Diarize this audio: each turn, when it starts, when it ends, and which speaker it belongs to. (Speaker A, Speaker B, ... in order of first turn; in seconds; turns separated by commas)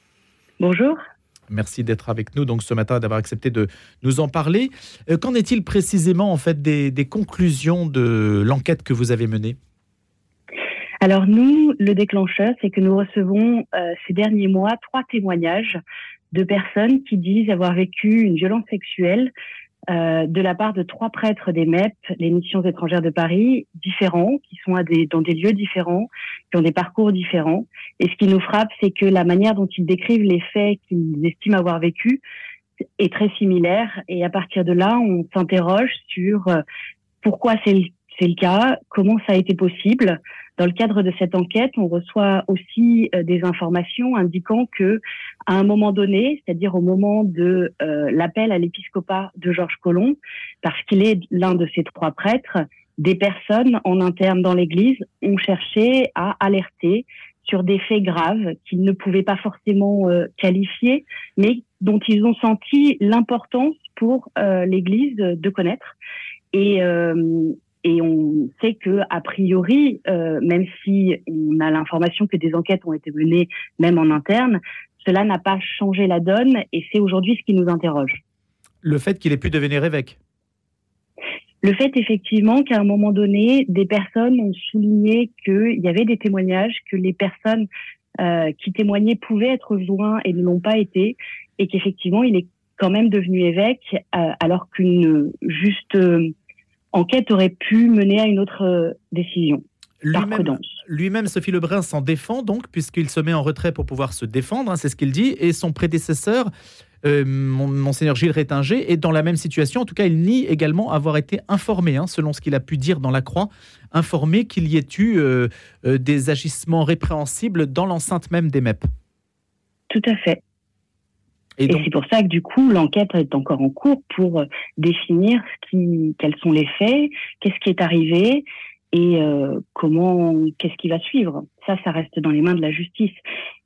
Speaker A: 0.6-1.0, Speaker B: 1.5-9.6, Speaker A: 11.0-15.8, Speaker A: 16.3-19.3, Speaker A: 19.9-32.2, Speaker A: 33.0-36.6, Speaker A: 37.2-65.9, Speaker A: 66.5-78.2, Speaker B: 78.8-80.2, Speaker A: 81.6-87.7, Speaker A: 88.2-96.3, Speaker A: 96.9-99.6, Speaker B: 100.0-106.5, Speaker A: 100.1-100.7, Speaker B: 107.0-118.8, Speaker A: 119.9-120.4, Speaker B: 121.6-121.9, Speaker A: 121.7-133.2